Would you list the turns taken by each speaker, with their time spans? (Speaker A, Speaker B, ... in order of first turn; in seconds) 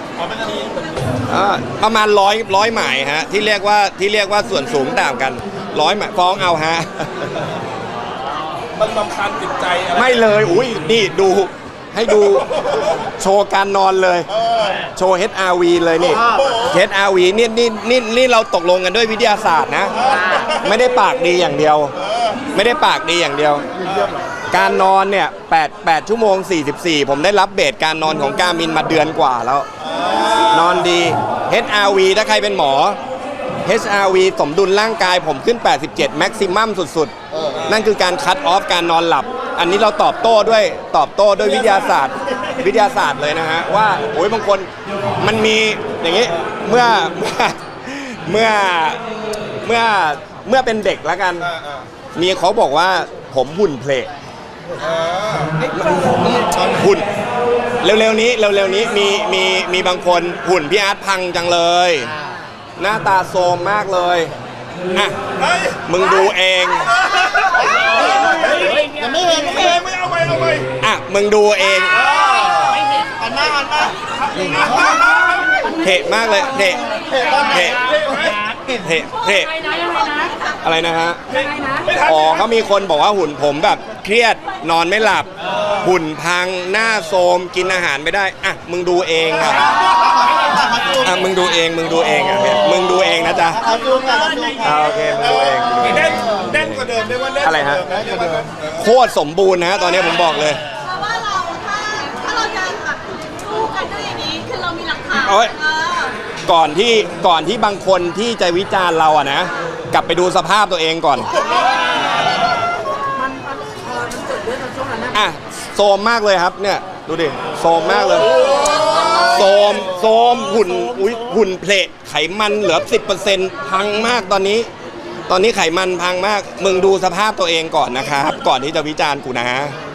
Speaker A: 0.2-1.2, 8.7-10.2, 14.4-14.7, 51.5-51.9, 54.9-55.5, 65.4-65.8, 67.1-67.4, 68.3-68.7, 69.7-70.7, 72.0-72.6, 74.3-75.6, 77.2-78.4, 81.3-82.5, 95.9-98.7
Speaker B: 1.3-7.3, 9.9-14.3, 14.9-21.9, 22.5-23.7, 24.5-29.7, 30.4-33.0, 33.6-37.1, 37.7-44.7, 45.2-49.0, 49.6-51.5, 52.1-54.1, 55.7-57.0, 57.8-62.1, 62.8-64.3, 65.8-67.0, 70.8-72.1, 75.8-77.8, 78.8-79.5, 80.6-81.2, 81.9-89.8, 91.0-93.7, 94.6-96.9, 97.4-97.8, 98.7-100.6, 105.2-105.5, 106.5-111.3, 115.1-124.7, 125.3-129.7
Speaker C: 37.4-37.6, 68.8-69.9, 73.2-75.1, 89.6-91.2, 93.5-96.5, 97.8-98.5
Speaker D: 79.6-80.6, 100.8-106.2
Speaker E: 81.3-81.9, 113.1-115.1